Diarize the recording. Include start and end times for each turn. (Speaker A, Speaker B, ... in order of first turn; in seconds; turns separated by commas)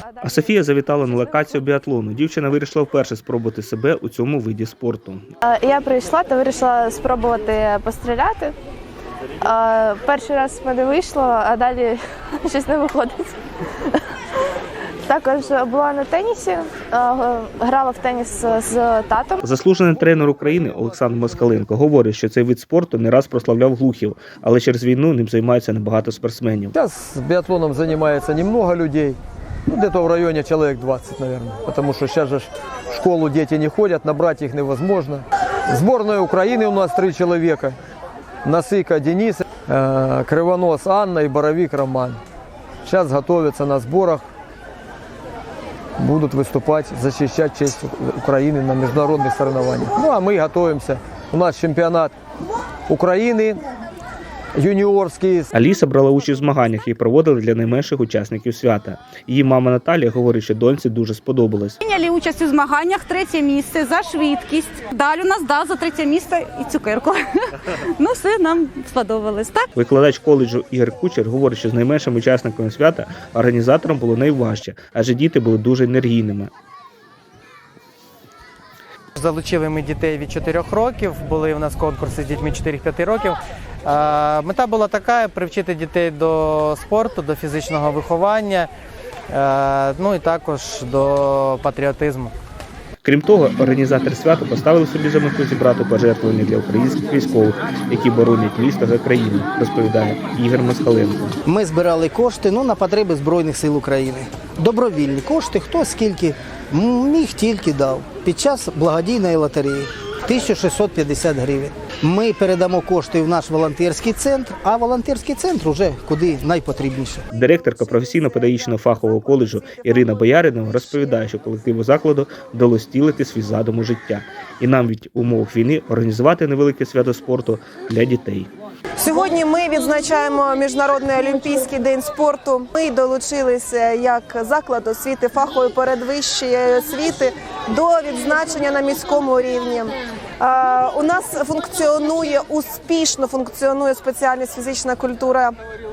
Speaker A: 0.2-5.3, Speaker B: 5.4-8.5, Speaker B: 9.4-13.4, Speaker B: 15.1-19.4, Speaker A: 19.4-26.8, Speaker C: 26.7-37.8, Speaker C: 38.5-42.2, Speaker C: 42.8-44.3, Speaker C: 46.0-52.1, Speaker C: 52.9-53.6, Speaker C: 54.6-55.5, Speaker A: 55.5-61.8, Speaker D: 61.8-69.7, Speaker A: 69.8-76.5, Speaker E: 79.2-88.7, Speaker E: 89.3-92.3, Speaker A: 93.0-101.2, Speaker F: 101.5-117.2, Speaker A: 117.3-128.5, Speaker G: 129.0-145.5